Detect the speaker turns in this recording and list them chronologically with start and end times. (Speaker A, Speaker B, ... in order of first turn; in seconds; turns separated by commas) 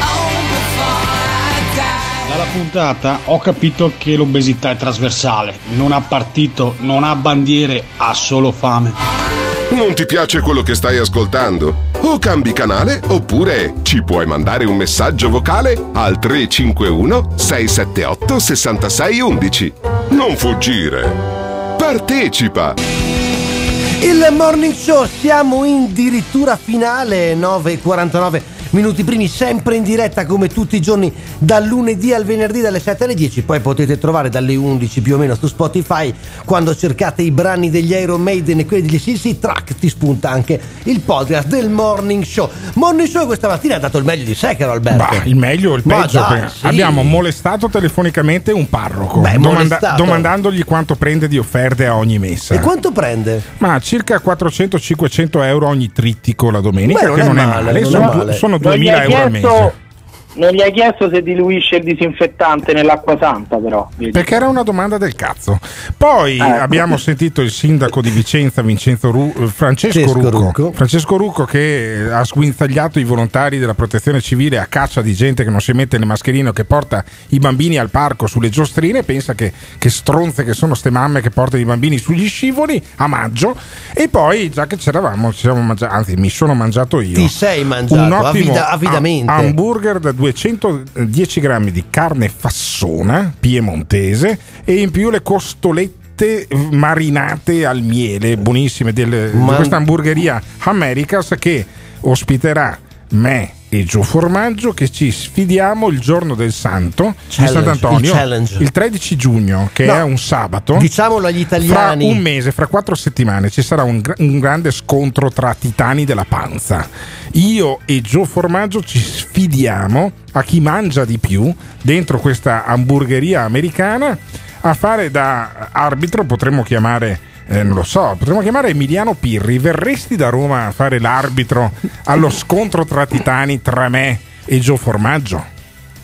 Speaker A: 2.2-9.0, Speaker B: 9.7-21.2, Speaker B: 21.8-22.8, Speaker C: 24.0-45.2, Speaker D: 44.9-52.7, Speaker C: 45.8-47.2, Speaker C: 49.2-50.3, Speaker C: 52.5-53.4, Speaker D: 53.6-59.7, Speaker C: 56.9-58.4, Speaker E: 57.9-59.7, Speaker E: 60.4-64.2, Speaker D: 64.1-87.3, Speaker E: 66.4-66.9, Speaker C: 69.9-70.7, Speaker C: 87.1-89.5, Speaker D: 87.9-110.9, Speaker C: 99.3-99.8, Speaker C: 107.3-108.7, Speaker C: 110.7-112.2, Speaker D: 111.6-135.5